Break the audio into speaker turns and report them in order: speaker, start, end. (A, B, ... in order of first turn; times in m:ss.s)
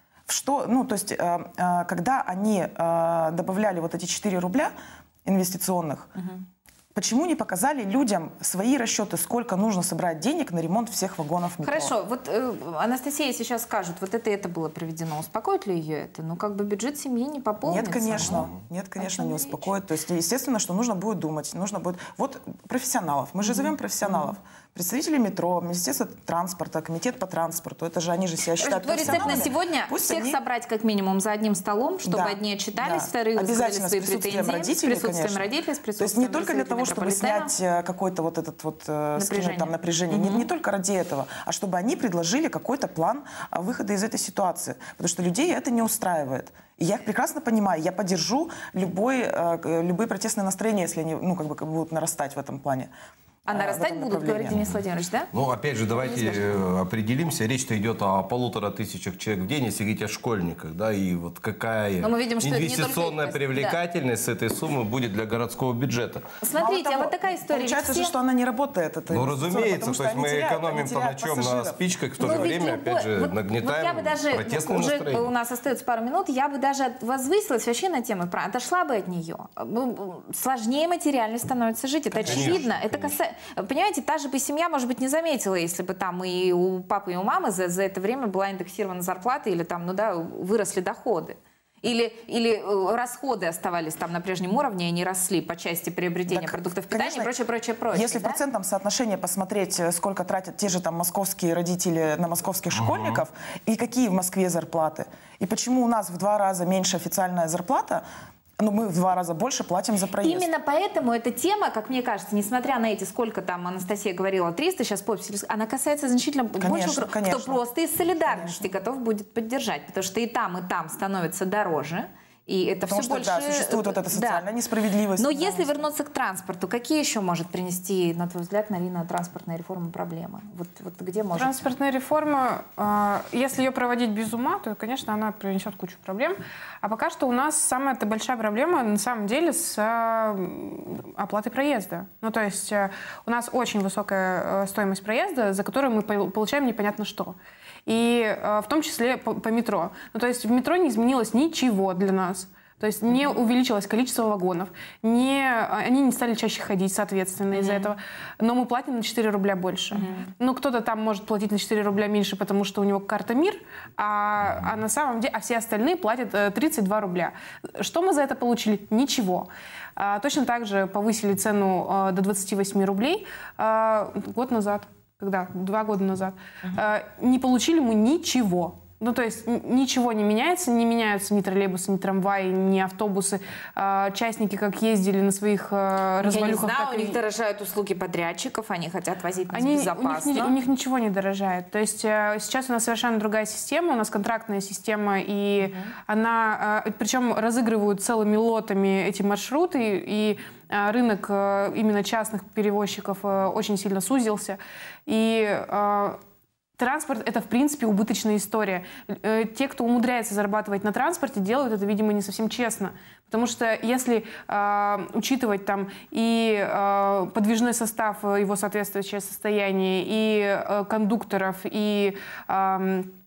0:00.3-0:04.7 A
0:05.2-0:06.2 A
0:06.2-0:06.4 B
0:06.9-0:11.9 A
0:11.6-0:19.7 B
0:17.6-0:30.4 A
0:23.4-0:24.3 B
0:28.6-0:37.5 B
0:32.0-0:35.5 A
0:36.0-0:52.9 A
0:39.2-0:40.5 B
0:53.5-0:55.3 B
0:53.5-0:54.6 A
0:54.5-0:54.8 C
0:55.3-1:06.2 C
0:56.0-0:56.6 B
1:02.0-1:03.8 B
1:06.4-1:08.1 B
1:06.5-1:12.5 A
1:09.1-1:15.3 C
1:12.2-1:38.4 B
1:22.2-1:23.2 C
1:22.2-1:22.6 A
1:36.3-1:37.3 A
1:37.9-1:48.0 A
1:42.8-1:43.2 C
1:48.6-1:50.5 A
1:50.2-2:04.4 B
1:56.6-1:57.6 A
1:58.2-1:58.7 A
2:02.8-2:05.8 A
2:05.2-2:11.6 B
2:11.3-3:07.2 D
2:37.5-2:37.9 B
2:39.9-2:40.3 B
3:06.2-3:10.6 B
3:09.5-3:26.2 D
3:26.8-3:43.1 D